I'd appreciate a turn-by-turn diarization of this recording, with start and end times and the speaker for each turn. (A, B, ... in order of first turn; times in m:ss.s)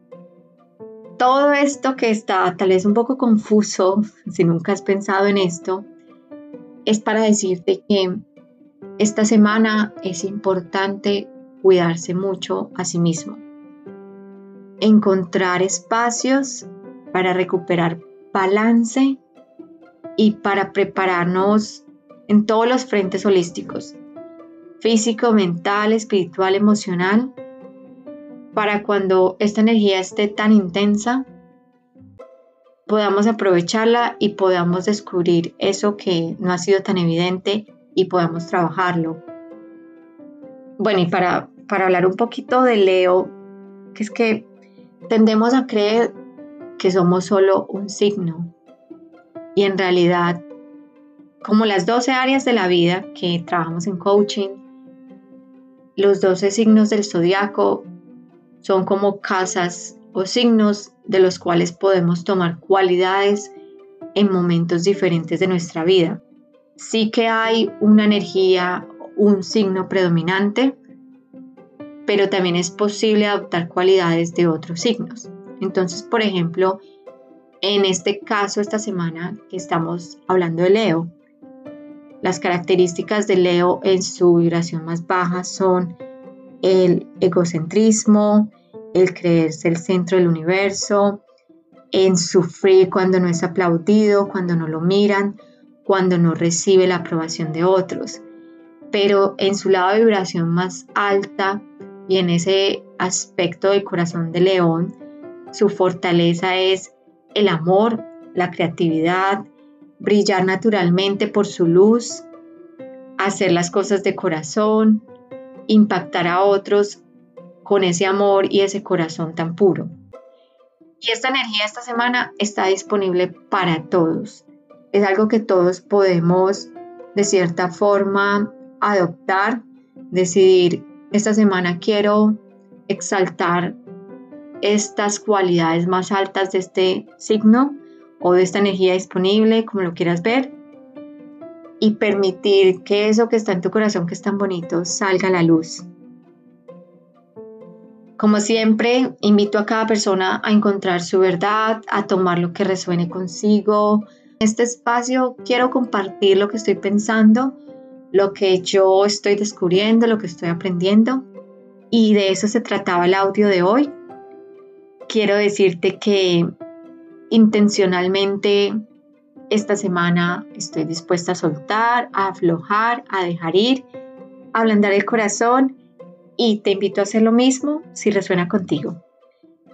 0:01.2-0:05.9 A
0:06.8-0:08.2 A
0:09.0-0:13.4 A
0:14.8-0:19.2 A
0:20.2-0:24.0 A
0:24.8-0:27.3 A
0:28.5-0:31.3 A
0:32.9-0:39.2 A
0:40.8-0:43.4 A
0:43.9-0:44.5 A
0:45.1-0:46.1 A
0:46.8-0:48.5 A
0:49.6-0:50.4 A
0:51.4-0:54.6 A
0:56.0-0:57.9 A
0:58.6-1:03.5 A
1:04.1-1:06.2 A
1:06.8-1:10.8 A
1:12.0-1:16.8 A
1:17.6-1:21.1 A
1:22.2-1:26.0 A
1:26.6-1:31.2 A
1:31.9-1:38.2 A
1:38.9-1:45.0 A
1:45.5-1:49.4 A
1:50.0-1:52.2 A
1:53.2-1:55.0 A
1:55.7-1:57.0 A
1:57.6-1:59.9 A
2:01.0-2:13.8 A
2:14.6-2:20.5 A
2:21.8-2:25.9 A
2:28.2-2:37.6 A
2:38.1-2:41.3 A
2:41.9-2:44.0 A
2:45.1-2:46.5 A
2:47.3-2:48.8 A
2:49.5-2:53.9 A
2:54.5-2:55.8 A
2:56.4-2:59.0 A